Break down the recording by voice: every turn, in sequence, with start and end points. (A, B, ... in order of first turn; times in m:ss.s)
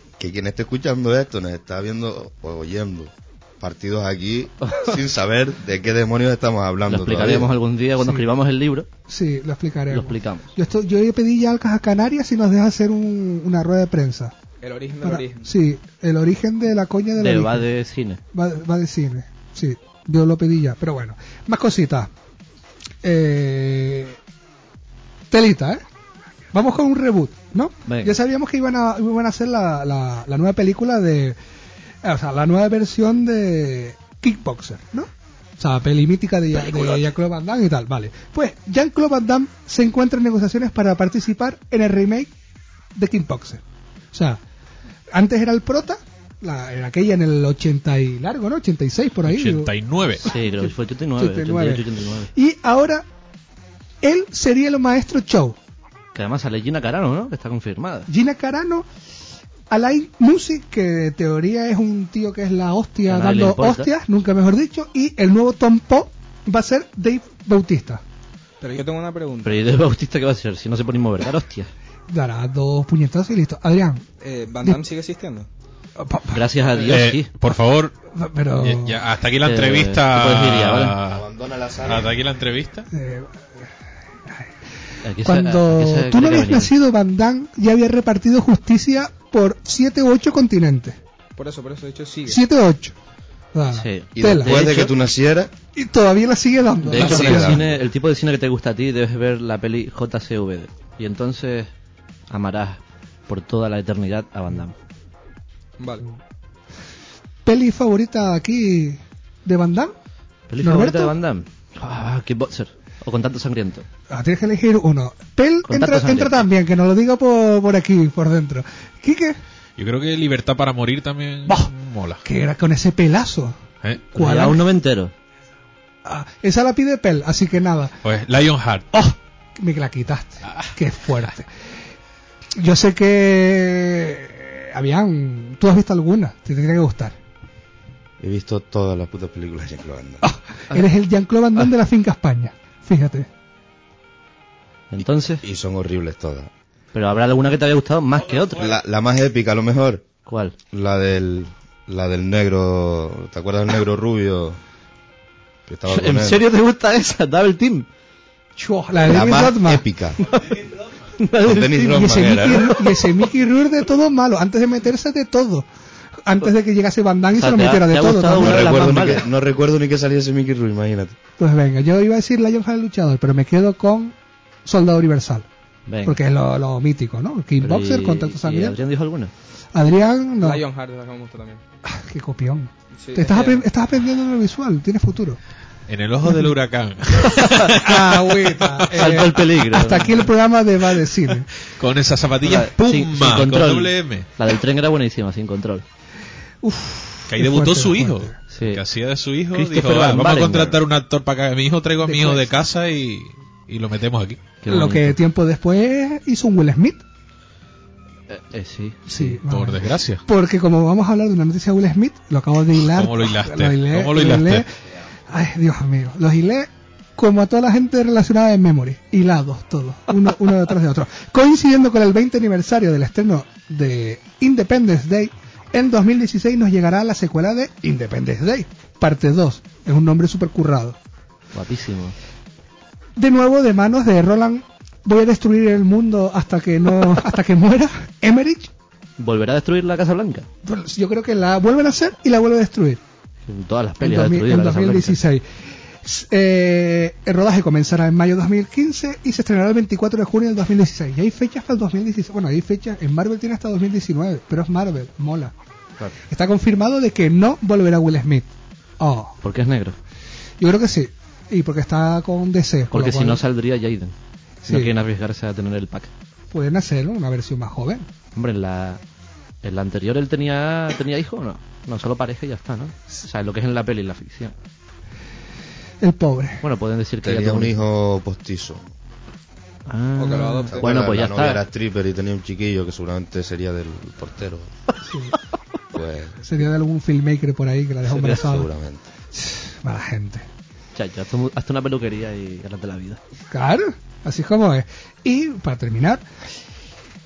0:00.2-0:07.5 A
0:04.6-0:05.0 B
0:06.9-0:08.9 B
0:08.0-0:08.2 C
0:09.1-0:14.3 C
0:09.9-0:10.5 B
0:14.6-0:15.5 D
0:15.0-0:17.7 C
0:17.2-0:18.2 B
0:18.3-0:22.1 C
0:23.0-0:24.2 C
0:25.3-0:25.8 C
0:26.5-0:31.4 C
0:27.9-0:28.1 B
0:32.0-0:42.3 C
0:43.0-0:43.6 C
0:44.1-0:44.4 C
0:45.1-0:49.7 C
0:49.2-0:50.3 E
0:50.2-0:53.0 C
0:50.2-0:52.3 B
0:54.0-0:55.6 C
0:56.1-0:58.1 B
0:58.1-0:58.9 C
0:59.7-1:08.0 C
1:03.1-1:03.9 B
1:08.7-1:09.7 D
1:09.4-1:11.7 B
1:12.1-1:14.0 C
1:14.2-1:15.5 D
1:16.0-1:16.4 C
1:16.3-1:17.3 B
1:16.8-1:18.0 E
1:18.1-1:19.0 C
1:18.6-1:21.2 E
1:19.4-1:21.0 B
1:21.1-1:22.2 A
1:21.8-1:22.9 E
1:22.9-1:23.3 C
1:25.0-1:26.7 B
1:25.2-1:31.0 C
1:31.4-1:32.4 D
1:32.3-1:33.0 C
1:33.5-1:34.6 C
1:33.7-1:35.0 B
1:34.1-1:35.5 A
1:35.8-1:37.6 C
1:36.8-1:41.7 B
1:36.9-1:37.8 A
1:42.3-1:44.7 B
1:45.8-1:46.0 D
1:47.4-1:49.9 C
1:50.5-1:53.8 B
1:50.6-1:51.1 C
1:54.1-1:59.4 C
1:55.7-1:56.5 B
1:59.8-2:02.2 E
2:02.2-2:03.6 C
2:03.8-2:04.1 E
2:04.1-2:04.7 C
2:04.1-2:05.1 B
2:06.0-2:08.0 C
2:08.0-2:08.9 E
2:08.9-2:11.5 C
2:12.6-2:17.1 C
2:18.2-2:20.2 A
2:20.2-2:23.3 C
2:24.9-2:25.4 B
2:25.0-2:26.5 A
2:26.9-2:28.7 B
2:28.6-2:30.0 A
2:30.2-2:30.6 B
2:30.7-2:34.6 A
2:35.7-2:36.5 A
2:35.9-2:37.9 B
2:38.6-2:39.8 C
2:39.0-2:40.2 A
2:40.3-2:42.1 B
2:41.4-2:42.8 A
2:41.5-2:45.7 C
2:42.8-2:43.0 B
2:46.2-2:48.9 C
2:47.4-2:49.2 B
2:48.3-2:51.1 A
2:51.4-2:55.5 C
2:55.9-2:56.2 B
2:56.0-2:58.8 C
2:57.6-2:59.3 B
2:59.7-3:00.6 C
3:00.4-3:01.6 D
3:01.9-3:05.4 C
3:03.0-3:03.6 D
3:05.9-3:09.2 E
3:07.8-3:11.5 C
3:08.9-3:10.2 B
3:11.6-3:14.3 E
3:12.4-3:15.8 B
3:16.6-3:18.3 C
3:17.3-3:24.6 E
3:18.5-3:18.8 B
3:19.5-3:20.8 B
3:22.0-3:22.5 C
3:24.6-3:25.2 B
3:24.7-3:27.0 C
3:28.3-3:29.4 B
3:29.1-3:34.7 C
3:29.5-3:30.2 E
3:32.8-3:34.6 E
3:35.3-3:51.0 C
3:51.5-3:52.2 B
3:53.2-3:58.7 C
3:59.2-4:00.5 B
4:00.6-4:03.0 C
4:03.5-4:05.2 B
4:04.0-4:05.4 C
4:06.0-4:15.5 C
4:16.3-4:19.4 C
4:19.4-4:20.0 B
4:20.6-4:23.4 C
4:22.9-4:24.1 B
4:24.6-4:24.9 C
4:24.7-4:26.1 B
4:26.5-4:28.1 C
4:28.4-4:29.0 B
4:29.6-4:34.5 B
4:36.0-4:36.6 C
4:36.6-4:37.8 B
4:37.2-4:38.9 A
4:39.9-4:41.6 B
4:40.2-4:40.7 D
4:40.7-4:44.7 A
4:45.0-4:45.4 C
4:45.9-4:46.4 A
4:46.4-4:48.7 C
4:48.1-4:48.5 B
4:48.2-4:49.0 A
4:49.3-4:50.5 C
4:51.0-4:53.2 B
4:53.5-4:56.2 C